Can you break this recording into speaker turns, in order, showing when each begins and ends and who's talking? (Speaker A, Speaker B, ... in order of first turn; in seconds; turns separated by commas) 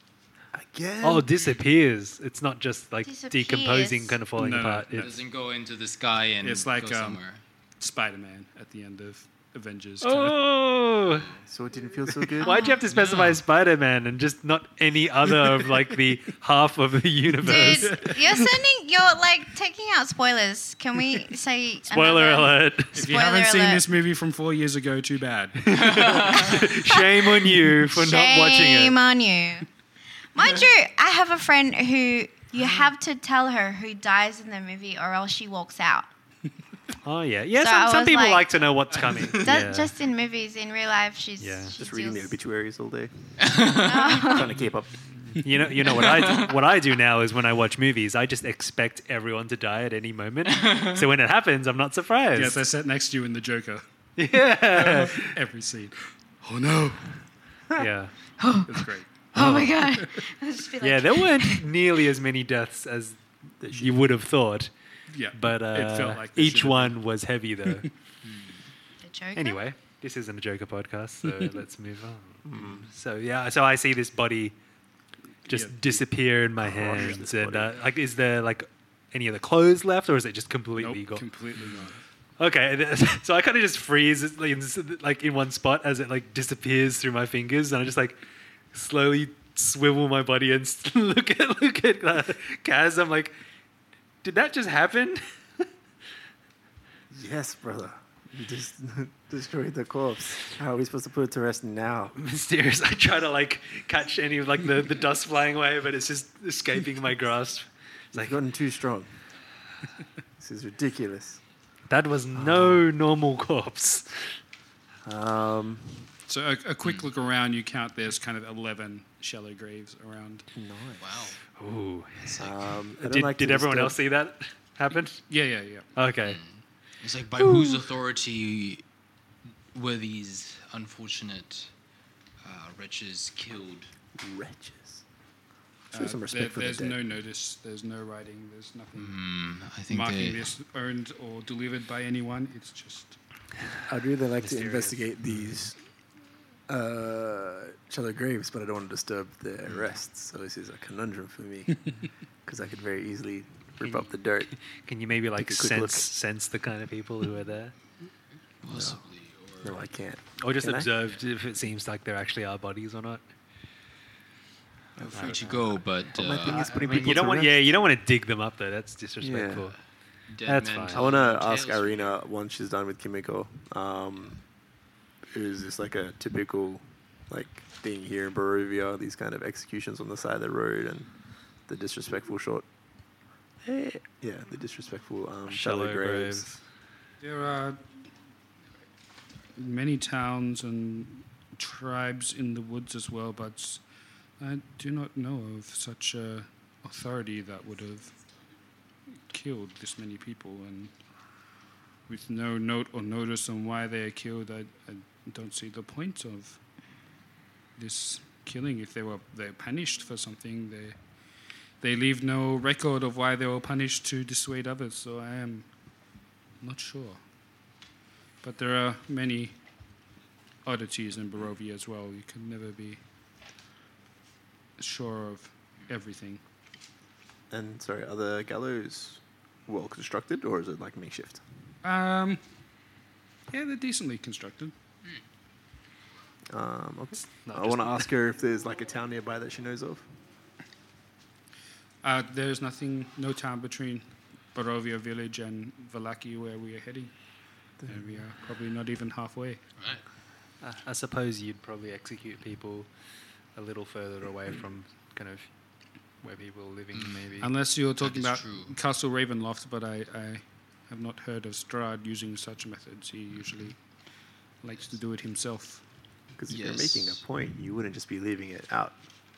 Speaker A: 0.5-1.3, Speaker B: 1.0-5.1, Speaker C: 3.0-4.2, Speaker D: 4.3-5.2, Speaker E: 5.0-7.4, Speaker D: 6.4-7.2, Speaker D: 7.8-10.4, Speaker B: 10.0-11.3, Speaker E: 11.1-11.4, Speaker A: 11.5-12.6, Speaker B: 12.4-18.1, Speaker C: 12.4-12.8, Speaker E: 12.9-13.4, Speaker C: 17.4-23.9, Speaker D: 17.5-18.4, Speaker B: 21.9-23.0, Speaker D: 22.9-26.2, Speaker B: 25.6-29.0, Speaker C: 26.4-26.6, Speaker C: 27.9-29.7, Speaker C: 30.3-36.1, Speaker B: 37.0-39.9, Speaker C: 37.5-38.5, Speaker C: 39.4-42.4, Speaker B: 41.4-41.8, Speaker A: 41.8-45.0, Speaker E: 43.5-44.1, Speaker C: 43.7-44.6, Speaker B: 45.4-52.6, Speaker D: 52.3-53.8, Speaker B: 54.2-55.4, Speaker D: 54.7-57.2, Speaker B: 57.8-58.1, Speaker C: 58.4-61.6, Speaker D: 58.7-59.9, Speaker B: 59.4-59.7, Speaker B: 60.8-63.2, Speaker A: 63.6-64.0, Speaker B: 63.7-64.7, Speaker D: 65.1-67.0, Speaker B: 65.3-67.9, Speaker C: 69.0-69.6, Speaker B: 69.3-74.5, Speaker A: 72.4-72.9, Speaker D: 75.4-76.0, Speaker B: 75.5-81.2, Speaker A: 76.6-77.8, Speaker D: 80.8-82.0, Speaker B: 82.4-88.2, Speaker B: 88.7-93.3, Speaker B: 94.2-95.2, Speaker A: 97.1-102.2, Speaker B: 102.1-108.4, Speaker A: 108.1-109.1, Speaker A: 110.4-111.4, Speaker B: 111.9-114.3, Speaker A: 112.3-112.8, Speaker A: 115.0-116.1, Speaker D: 116.3-120.5, Speaker A: 120.5-121.3, Speaker E: 121.0-121.4, Speaker B: 121.6-122.4, Speaker A: 122.3-124.0, Speaker B: 123.0-125.3, Speaker D: 125.3-125.9, Speaker B: 125.9-126.4, Speaker E: 126.2-128.8, Speaker E: 129.7-131.7, Speaker E: 132.4-133.9, Speaker A: 134.2-135.0, Speaker D: 135.9-139.2, Speaker A: 135.9-137.0, Speaker E: 138.9-140.5, Speaker D: 139.9-143.2, Speaker A: 143.9-145.8, Speaker B: 144.4-145.5, Speaker A: 146.7-151.8, Speaker A: 152.4-154.5, Speaker B: 153.8-154.1, Speaker B: 154.7-157.7, Speaker A: 155.4-156.1, Speaker E: 158.6-159.8, Speaker A: 158.7-159.0, Speaker A: 159.6-160.9, Speaker B: 160.4-163.2, Speaker A: 165.0-167.7, Speaker E: 165.0-167.2, Speaker B: 165.1-165.6, Speaker B: 166.4-169.8, Speaker A: 169.2-169.7, Speaker E: 170.3-172.2, Speaker B: 170.4-171.1, Speaker A: 170.9-174.4, Speaker A: 175.3-181.1, Speaker A: 181.7-182.7, Speaker A: 183.6-186.5, Speaker B: 185.5-186.6, Speaker D: 187.2-187.8, Speaker D: 189.6-193.8, Speaker D: 194.4-198.2, Speaker D: 199.3-200.9, Speaker D: 202.1-206.6, Speaker D: 207.8-211.0, Speaker D: 211.8-215.7, Speaker D: 216.6-217.2, Speaker D: 218.4-219.5, Speaker D: 220.6-223.0, Speaker D: 224.8-226.4, Speaker A: 227.5-231.4, Speaker D: 231.8-232.4, Speaker D: 233.5-234.7, Speaker A: 236.5-240.1, Speaker B: 237.4-238.1, Speaker D: 242.0-247.1, Speaker A: 247.8-248.2, Speaker D: 247.9-249.6, Speaker E: 249.8-250.0, Speaker B: 250.6-252.9, Speaker B: 253.5-255.5, Speaker B: 256.2-257.5, Speaker E: 256.9-257.2, Speaker D: 257.4-263.8, Speaker E: 258.0-258.8, Speaker E: 263.3-263.8, Speaker D: 264.6-265.8, Speaker A: 266.3-269.0, Speaker E: 266.5-267.2